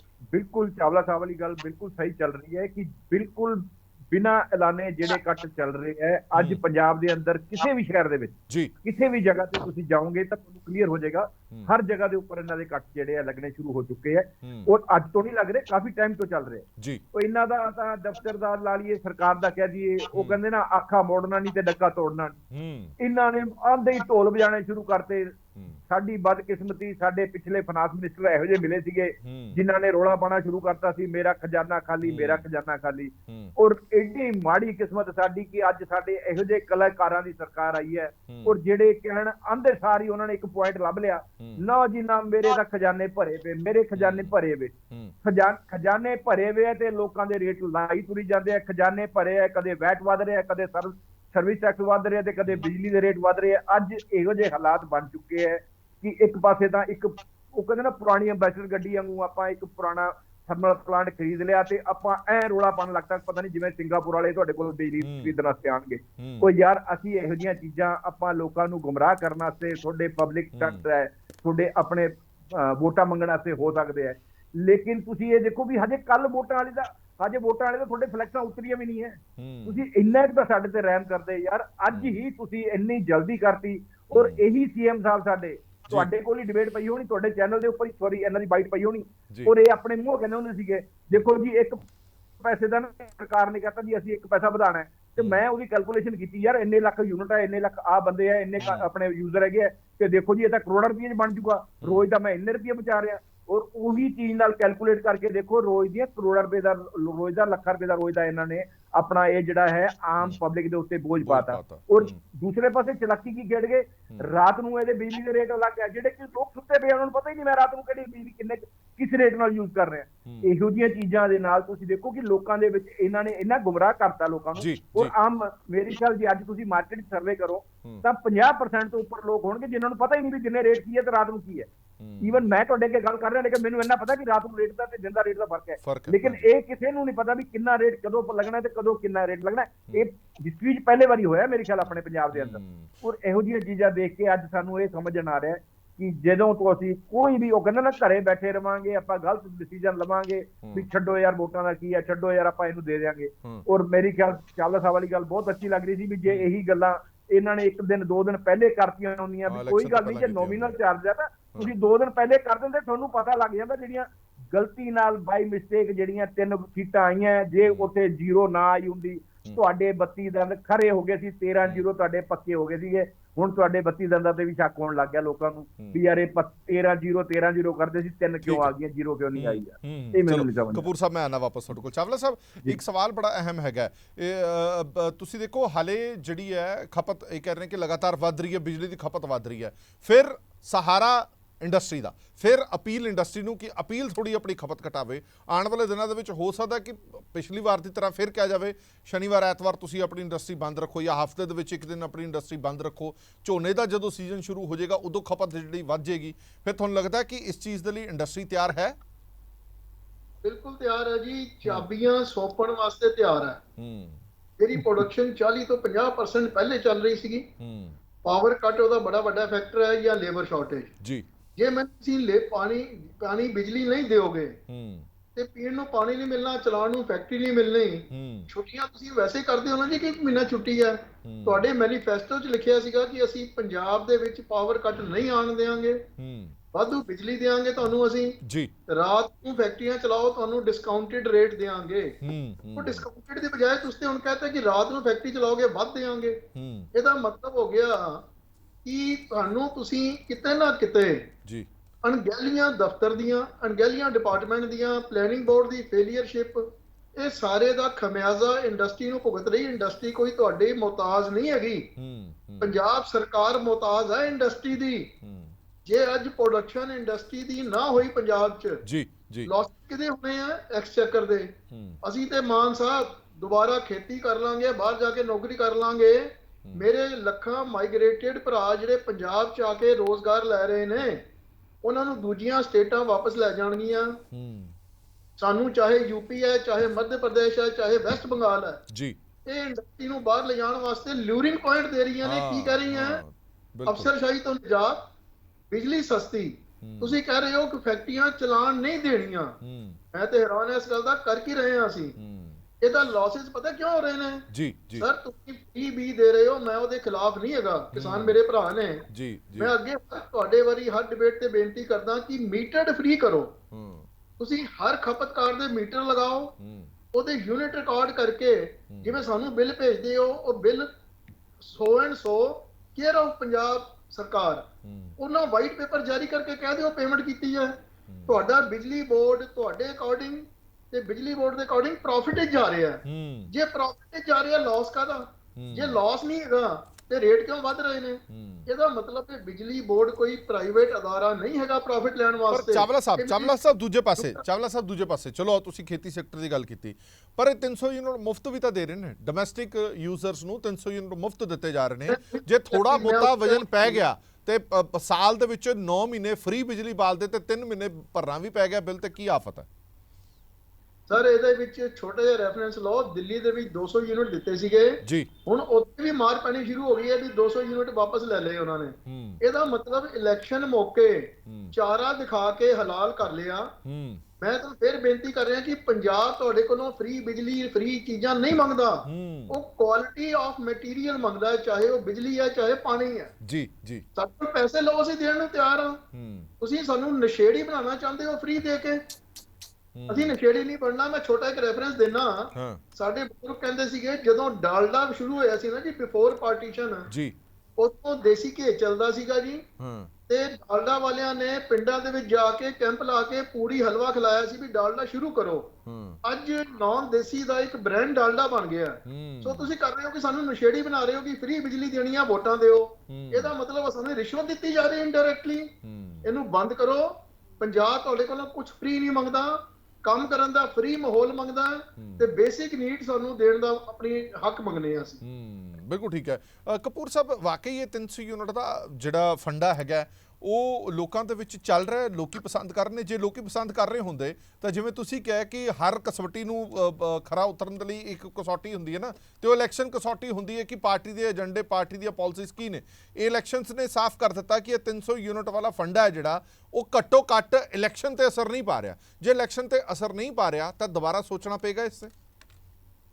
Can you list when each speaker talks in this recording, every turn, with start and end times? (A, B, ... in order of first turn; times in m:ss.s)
0:00.3-0:22.4 A
0:06.3-0:06.6 B
0:14.4-0:14.7 B
0:16.8-0:17.0 B
0:20.1-0:20.4 B
0:22.5-0:22.9 B
0:23.0-0:25.4 A
0:25.9-1:31.8 A
0:29.2-0:29.6 B
0:32.0-0:32.4 B
0:38.3-0:38.5 B
0:43.9-0:44.3 B
1:05.0-1:05.3 B
1:06.2-1:06.5 B
1:10.5-1:10.8 B
1:19.4-1:19.8 B
1:21.9-1:22.2 B
1:24.1-1:24.4 B
1:32.4-2:11.7 A
1:38.6-1:38.8 B
1:41.8-1:42.1 B
1:51.2-1:52.2 B
2:04.6-2:05.1 B
2:12.0-2:12.4 B
2:12.2-3:00.9 A
2:15.8-2:16.4 B
2:21.9-2:22.9 B
2:30.6-2:30.9 B
2:39.4-2:40.7 B
2:47.6-2:47.9 B
2:58.4-2:58.7 B
2:59.3-3:29.0 B
3:30.4-3:33.6 C
3:33.8-3:34.2 B
3:34.6-3:37.5 C
3:37.6-3:38.0 B
3:38.2-3:41.0 C
3:41.6-3:44.6 C
3:44.7-3:45.1 B
3:45.4-3:56.1 C
3:48.1-3:48.5 B
3:51.2-3:51.6 B
3:56.2-3:56.6 B
3:56.7-4:02.2 C
3:58.4-3:58.7 B
4:02.2-4:03.0 B
4:02.8-4:08.2 C
4:06.5-4:06.9 B
4:08.8-4:11.3 C
4:12.0-4:21.9 C
4:22.0-4:22.7 B
4:22.6-4:25.1 C
4:25.2-4:25.5 B
4:25.8-4:28.8 C
4:28.8-4:29.5 B
4:29.4-4:41.2 C
4:31.7-4:32.0 B
4:41.8-4:44.2 C
4:44.3-4:44.7 B
4:45.4-4:48.8 C
4:48.9-4:49.2 B
4:49.4-4:53.2 C
4:52.2-4:54.1 B
4:53.9-4:55.1 C
4:55.7-4:59.6 C
4:56.8-4:57.2 B
4:59.6-5:00.0 B
5:00.1-5:02.2 C
5:02.2-5:02.6 B
5:02.8-5:13.6 C
5:04.5-5:05.1 B
5:07.9-5:08.4 B
5:09.1-5:09.7 B
5:13.7-5:14.1 B
5:14.4-5:16.6 C
5:16.6-5:16.9 B
5:17.1-5:20.9 C
5:18.9-5:19.2 B
5:21.6-5:43.6 C
5:24.8-5:25.2 B
5:28.1-5:28.3 B
5:33.0-5:33.5 B
5:35.6-5:36.0 B
5:38.3-5:38.7 B
5:42.5-5:59.7 B
5:44.2-5:44.4 C
5:52.1-5:54.0 C
6:01.1-6:13.8 C
6:05.0-6:05.3 B
6:09.0-6:09.4 B
6:11.4-6:11.7 B
6:13.8-6:14.2 B
6:14.4-6:23.3 C
6:19.0-6:19.6 B
6:23.4-6:24.0 B
6:24.1-6:26.0 C
6:26.1-6:26.5 B
6:26.6-6:29.0 C
6:29.9-6:30.3 B
6:30.1-6:37.1 C
6:32.5-6:32.8 B
6:37.1-6:37.3 B
6:37.8-6:39.7 C
6:39.8-6:40.1 B
6:40.3-7:05.2 C
6:45.8-6:46.2 B
6:49.0-6:49.7 B
6:53.1-6:53.5 B
6:55.8-6:56.3 B
7:02.0-7:02.2 B
7:05.2-7:32.1 B